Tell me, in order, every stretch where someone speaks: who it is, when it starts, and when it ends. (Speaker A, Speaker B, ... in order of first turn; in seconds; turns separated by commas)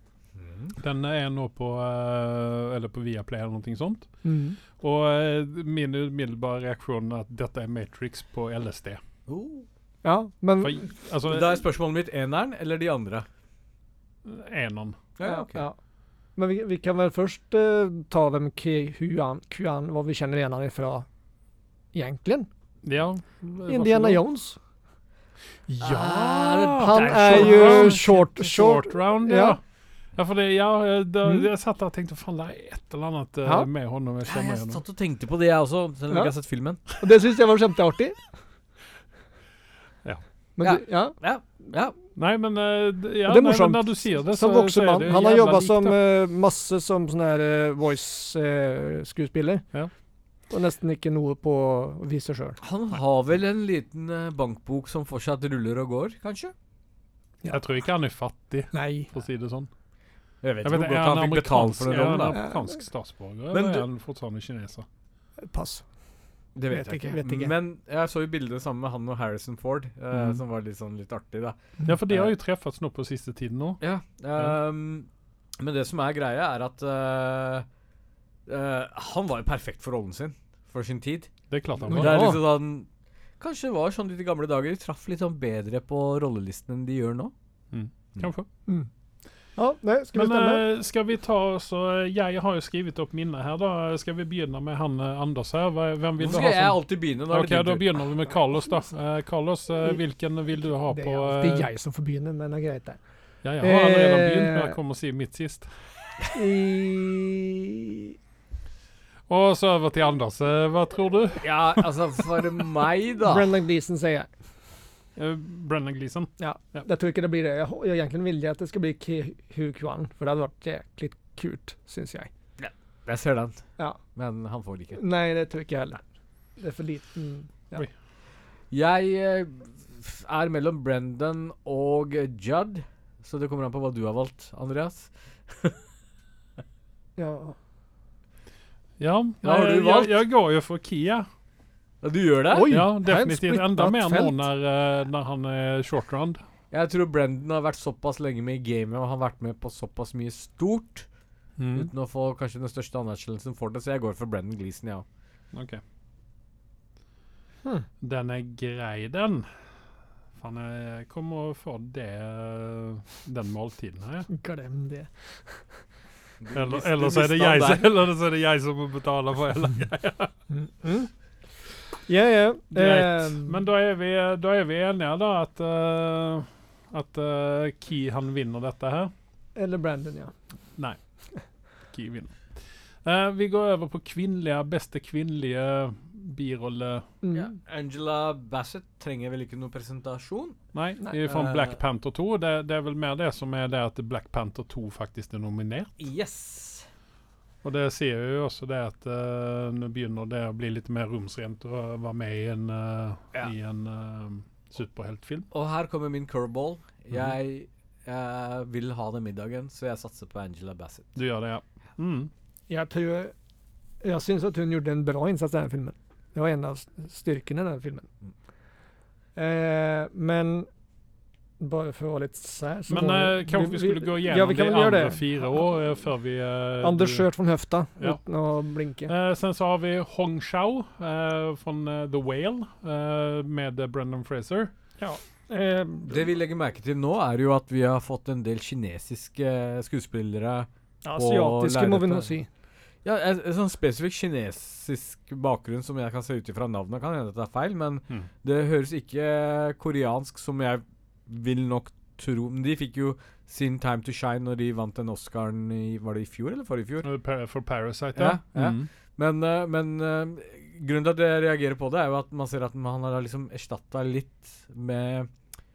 Speaker A: 0.3-0.7, Speaker B: 0.8-4.1, Speaker C: 4.2-4.6, Speaker B: 4.8-9.0, Speaker A: 9.2-9.7, Speaker C: 10.0-10.9, Speaker B: 10.6-11.6, Speaker A: 11.2-13.2, Speaker B: 14.2-15.0, Speaker A: 15.2-15.7, Speaker C: 15.2-15.8, Speaker C: 16.4-21.1, Speaker C: 21.9-22.5, Speaker B: 22.8-24.2, Speaker C: 23.7-24.6, Speaker B: 25.7-29.6, Speaker A: 25.8-28.2, Speaker C: 26.8-29.6, Speaker B: 30.1-34.8, Speaker C: 31.2-31.5, Speaker A: 34.2-36.8, Speaker C: 36.9-38.2, Speaker C: 40.6-41.2, Speaker A: 40.6-42.0, Speaker B: 42.1-46.0, Speaker C: 43.3-49.6, Speaker C: 50.5-52.6, Speaker A: 52.6-56.5, Speaker B: 57.5-59.7, Speaker C: 58.7-59.1, Speaker A: 60.4-62.4, Speaker B: 60.6-64.8, Speaker A: 63.5-63.9, Speaker C: 65.4-65.8, Speaker A: 66.5-71.6, Speaker C: 66.7-67.5, Speaker B: 70.1-70.4, Speaker B: 71.8-73.8, Speaker A: 73.8-75.1, Speaker A: 75.6-77.7, Speaker A: 78.5-81.3, Speaker B: 81.5-82.3, Speaker A: 81.8-82.9, Speaker C: 81.9-82.4, Speaker A: 83.4-87.3, Speaker B: 87.7-88.5, Speaker C: 89.6-90.6, Speaker B: 90.1-101.7, Speaker A: 96.2-98.0, Speaker C: 100.9-103.0, Speaker B: 103.4-105.7, Speaker C: 103.6-104.8, Speaker C: 106.3-108.1, Speaker B: 109.3-111.8, Speaker A: 111.4-113.5, Speaker C: 113.2-114.3, Speaker B: 115.2-116.8, Speaker C: 116.4-122.3, Speaker A: 122.6-125.0, Speaker C: 124.9-126.0, Speaker C: 126.6-127.8, Speaker A: 128.7-135.8, Speaker C: 137.2-137.6, Speaker B: 139.0-141.2, Speaker A: 139.4-140.1, Speaker A: 142.0-142.7, Speaker C: 142.5-144.4, Speaker B: 142.7-146.4, Speaker A: 146.7-151.1, Speaker B: 151.6-151.9, Speaker A: 151.7-155.1, Speaker B: 155.5-155.8, Speaker B: 158.0-159.5, Speaker B: 160.4-164.3, Speaker C: 164.3-165.6, Speaker A: 166.4-167.8, Speaker B: 166.5-170.3, Speaker C: 170.5-171.1, Speaker C: 172.1-173.6, Speaker B: 172.7-179.1, Speaker C: 179.6-180.3, Speaker B: 181.9-182.4, Speaker B: 183.0-187.1, Speaker C: 187.2-187.6, Speaker A: 187.3-190.6, Speaker B: 190.7-195.9, Speaker A: 191.2-191.8, Speaker A: 196.0-196.9, Speaker B: 197.6-205.5, Speaker A: 205.5-211.1, Speaker B: 211.1-212.3, Speaker C: 212.7-213.3, Speaker C: 214.0-218.1, Speaker C: 219.3-220.7, Speaker C: 221.6-225.4, Speaker B: 222.9-227.3, Speaker C: 226.8-229.1, Speaker B: 229.1-234.7, Speaker C: 235.0-236.2, Speaker A: 236.1-242.3, Speaker C: 241.0-242.5, Speaker A: 243.0-257.1, Speaker B: 257.0-258.9, Speaker A: 258.1-265.3